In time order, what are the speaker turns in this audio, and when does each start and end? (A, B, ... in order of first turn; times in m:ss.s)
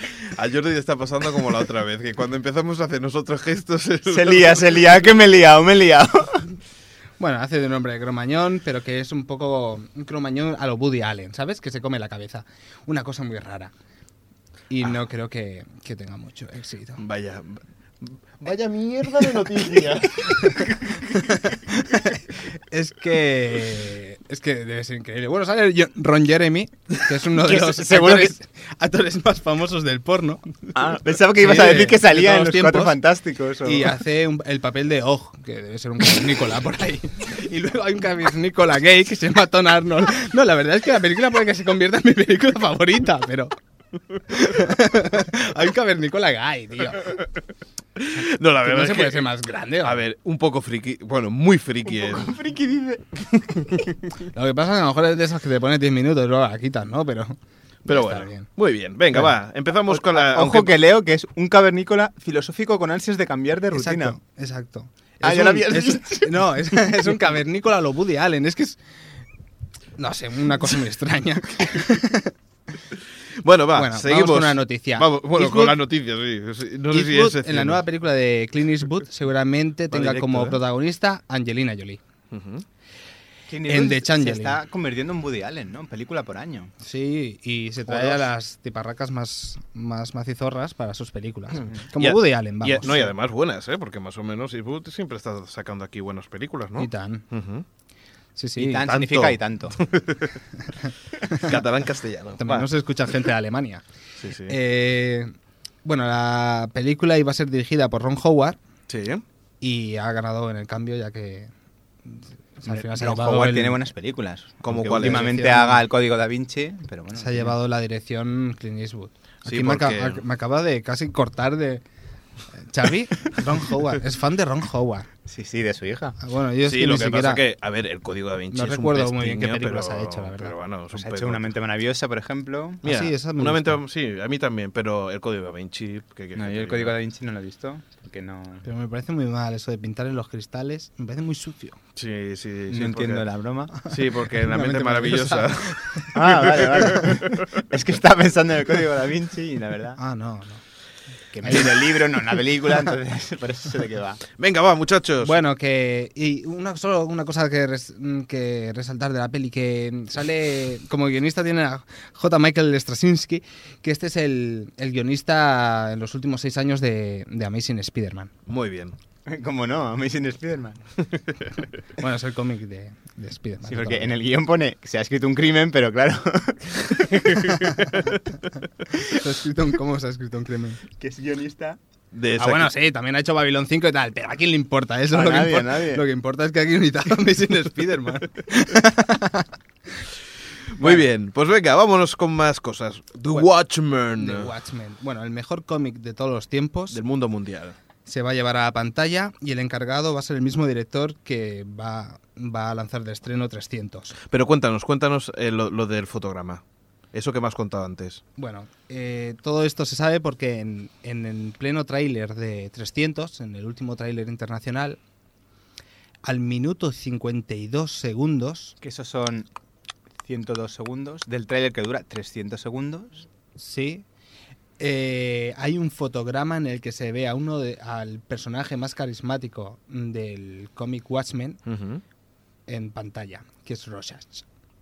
0:00.2-0:04.7 A
0:04.1-0:06.5 B
0:07.2-0:13.7 C
0:14.7-0:17.0 C
0:17.0-0:21.3 A
0:20.5-0:30.5 C
0:27.3-0:28.4 B
0:30.8-0:34.0 B
0:31.4-0:33.0 C
0:33.6-0:43.5 C
0:44.3-0:47.2 C
0:48.0-0:49.3 A
0:48.6-0:50.0 C
0:49.8-0:52.3 A
0:51.9-0:53.9 B
0:54.3-0:58.5 C
0:57.8-1:00.8 A
0:59.9-1:04.2 B
1:03.7-1:08.8 C
1:05.2-1:06.9 B
1:10.0-1:12.3 C
1:13.4-1:17.8 A
1:13.7-1:15.8 C
1:16.9-1:22.0 C
1:19.9-1:20.6 A
1:22.3-1:22.6 A
1:23.5-1:26.7 B
1:23.6-1:24.6 C
1:26.8-1:33.1 C
1:32.0-1:37.7 A
1:36.8-1:37.3 C
1:38.4-1:38.9 C
1:38.6-1:39.8 B
1:38.8-1:40.4 A
1:40.6-1:41.5 C
1:41.4-1:42.7 A
1:42.4-1:43.8 C
1:44.2-1:44.6 A
1:44.5-1:45.3 C
1:45.8-1:48.6 C
1:48.9-1:49.2 A
1:49.6-1:51.5 C
1:52.1-1:53.8 C
1:52.7-1:57.6 B
1:54.6-1:55.4 A
1:54.9-1:55.8 C
1:57.1-2:01.8 C
1:59.4-2:00.2 A
2:02.6-2:05.1 C
2:05.3-2:06.2 B
2:06.2-2:07.5 C
2:06.6-2:11.6 A
2:08.5-2:10.6 C
2:10.9-2:12.8 B
2:12.8-2:13.8 C
2:12.8-2:17.0 A
2:16.4-2:18.6 B
2:18.6-2:21.8 C
2:22.0-2:23.3 A
2:22.7-2:23.7 B
2:23.8-2:26.1 C
2:23.9-2:27.3 A
2:26.1-2:30.0 B
2:26.8-2:27.0 C
2:30.0-2:30.6 C
2:31.3-2:34.2 B
2:31.4-2:32.0 C
2:34.3-2:35.4 A
2:35.2-2:48.3 C
2:48.5-2:49.0 A
2:49.3-2:50.9 B
2:52.0-2:54.2 C
2:53.6-2:57.9 B
2:59.0-3:00.8 C
3:01.0-3:01.8 B
3:02.1-3:02.7 A
3:02.4-3:09.5 C
3:05.1-3:06.0 B
3:10.7-3:14.5 A
3:14.2-3:17.0 C
3:16.9-3:17.8 A
3:18.1-3:24.2 C
3:24.3-3:26.6 A
3:27.1-3:28.2 A
3:28.4-3:35.0 C
3:36.2-3:38.8 C
3:38.8-3:39.5 B
3:40.2-3:43.3 B
3:43.6-3:44.0 C
3:44.8-3:51.6 C
3:51.6-3:52.0 A
3:52.7-3:54.4 C